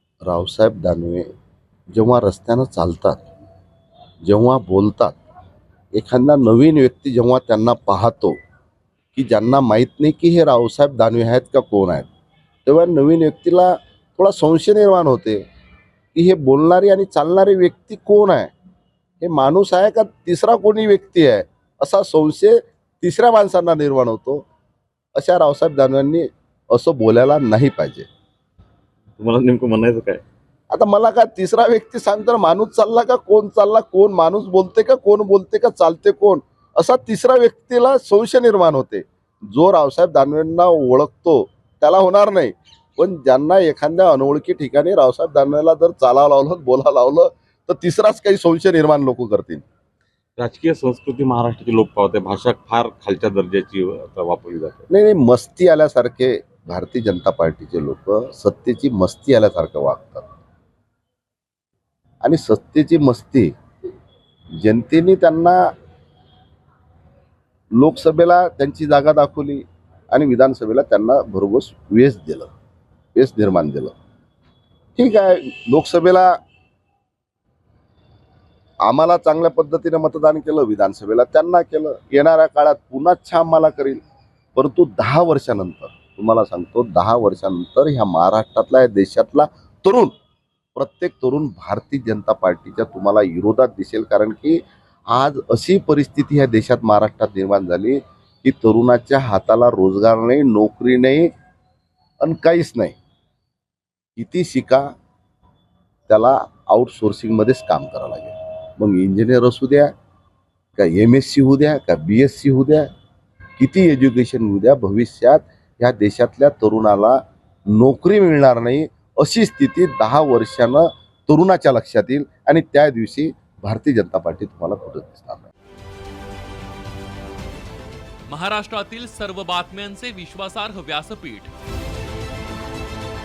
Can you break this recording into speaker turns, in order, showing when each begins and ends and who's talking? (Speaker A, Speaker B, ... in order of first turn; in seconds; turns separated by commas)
Speaker A: 0.2-1.3, Speaker A: 1.9-3.2, Speaker A: 4.2-5.2, Speaker A: 5.9-8.4, Speaker A: 9.1-12.1, Speaker A: 12.7-15.4, Speaker A: 16.1-18.5, Speaker A: 19.2-24.4, Speaker A: 25.2-28.1, Speaker B: 29.2-30.2, Speaker A: 30.7-49.6, Speaker B: 50.4-54.9, Speaker A: 54.9-60.3, Speaker A: 62.2-63.5, Speaker A: 64.6-65.7, Speaker A: 67.8-72.5, Speaker A: 73.2-73.9, Speaker A: 75.0-76.3, Speaker A: 78.8-84.0, Speaker A: 84.5-90.1, Speaker A: 90.8-101.3, Speaker A: 102.2-103.0, Speaker A: 104.2-104.9, Speaker A: 106.1-109.9, Speaker A: 110.8-112.9, Speaker A: 113.6-125.5, Speaker C: 128.3-131.5